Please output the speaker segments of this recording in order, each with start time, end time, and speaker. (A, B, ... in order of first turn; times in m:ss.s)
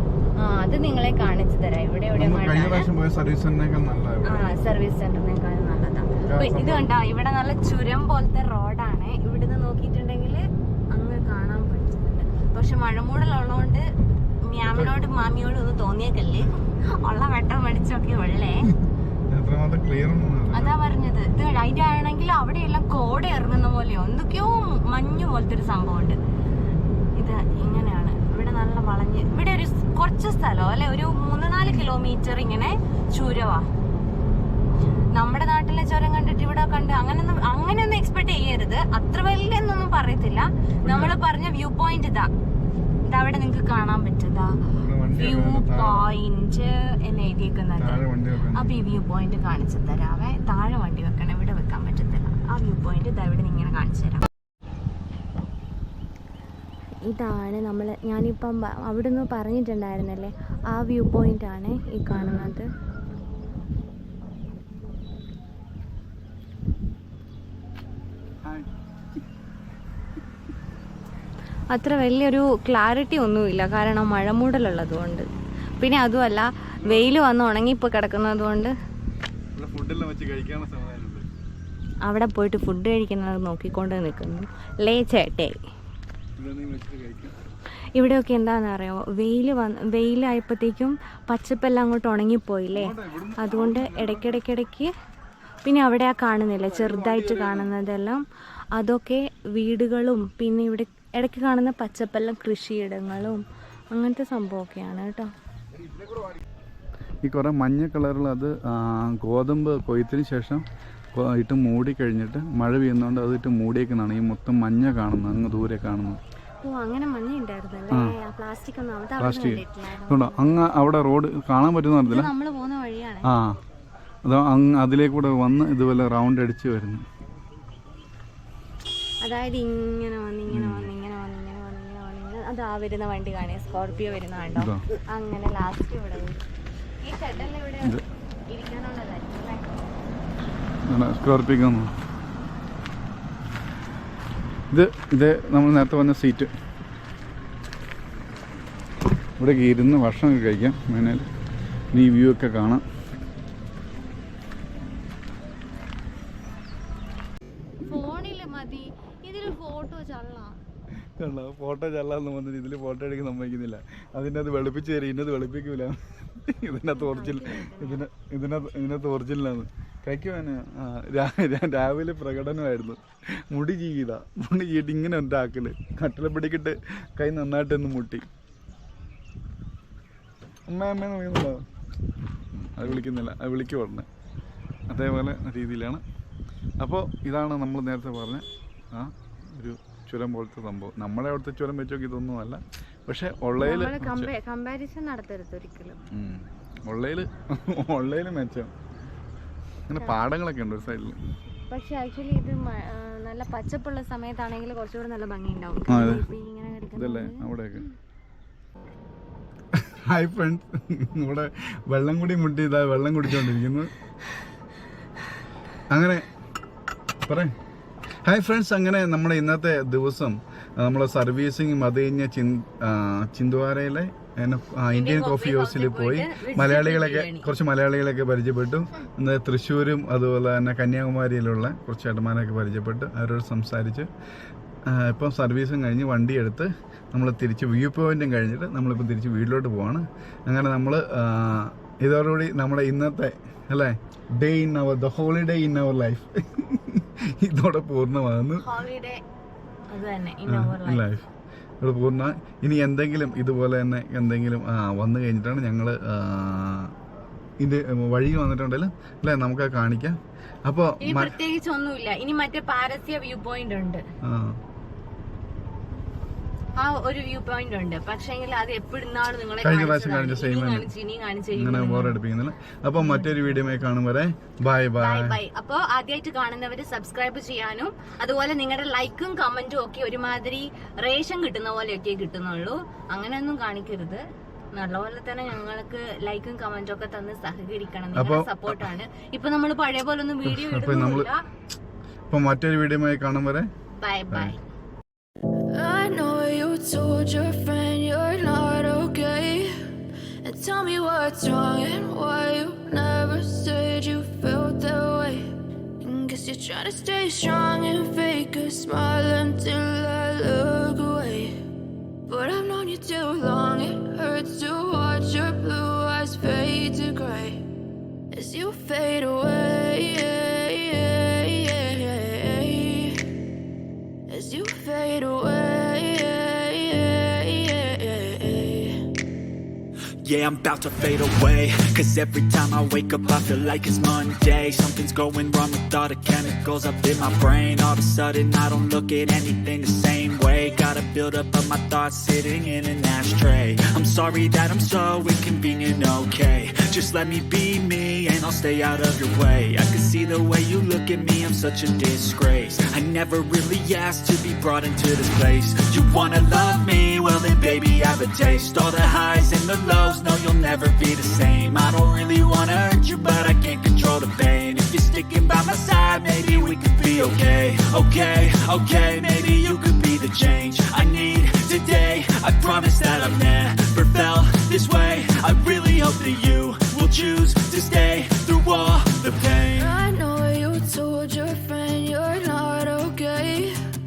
0:00.4-0:02.9 A
0:02.1-0:04.5 B
0:04.2-0:13.8 A
0:06.2-0:06.9 B
0:14.4-0:18.7 A
0:14.7-0:15.0 B
0:19.3-0:20.7 B
0:20.5-0:26.2 A
0:27.2-0:33.7 A
0:31.6-0:31.9 B
0:35.1-0:42.3 A
0:40.8-0:41.1 B
0:43.0-0:44.6 A
0:44.7-0:46.1 B
0:45.1-0:54.2 A
0:47.8-0:48.7 B
0:57.0-1:02.7 A
1:02.1-1:02.5 B
1:11.7-1:15.3 A
1:15.8-1:18.7 A
1:16.8-1:17.1 B
1:19.6-1:21.3 B
1:22.0-1:25.6 A
1:26.4-1:27.3 B
1:27.9-1:34.9 A
1:32.7-1:34.4 B
1:35.6-1:45.3 A
1:36.7-1:37.7 B
1:47.2-1:56.2 B
1:56.6-2:00.6 A
1:59.2-2:02.3 B
2:02.0-2:03.3 A
2:03.3-2:03.6 B
2:04.2-2:07.0 B
2:09.2-2:16.4 A
2:10.5-2:10.9 B
2:14.6-2:14.8 B
2:17.0-2:18.0 A
2:18.5-2:19.7 A
2:20.9-2:21.9 B
2:24.7-2:26.5 B
2:29.4-2:31.2 B
2:31.9-2:32.8 B
2:37.8-2:40.6 A
2:41.2-2:58.2 B
2:46.9-2:48.0 A
3:00.7-3:01.6 B
3:02.5-3:04.0 B
3:04.9-3:06.0 B
3:06.8-3:14.3 B
3:13.6-3:16.0 A
3:16.1-3:18.7 B
3:19.9-3:21.2 B
3:19.9-3:20.2 A
3:21.7-3:27.4 A
3:25.9-3:26.2 B
3:26.9-3:27.8 B
3:29.7-3:33.9 B
3:35.9-3:36.3 B
3:37.2-3:37.5 B
3:38.2-3:54.1 B
3:44.9-3:47.5 A
3:54.8-4:08.6 B
4:08.6-4:09.2 A
4:09.9-4:11.1 A
4:10.5-4:11.2 B
4:11.8-4:16.9 B
4:17.6-4:21.3 B
4:21.0-4:24.0 A
4:24.2-4:24.6 B
4:26.8-4:32.2 A
4:29.6-4:30.9 B
4:31.5-4:35.4 B
4:33.0-4:33.4 A
4:35.0-4:51.4 A
4:48.1-4:48.8 B
4:50.4-4:51.3 B
4:52.3-4:53.7 B
4:54.0-4:54.6 A
4:55.8-4:59.6 C
5:00.5-5:05.3 C
5:06.0-5:11.4 C
5:12.3-5:17.5 C
5:18.4-5:20.4 C
5:21.0-5:23.1 C
5:24.4-5:28.9 C
5:30.2-6:20.0 D
6:19.8-6:23.6 C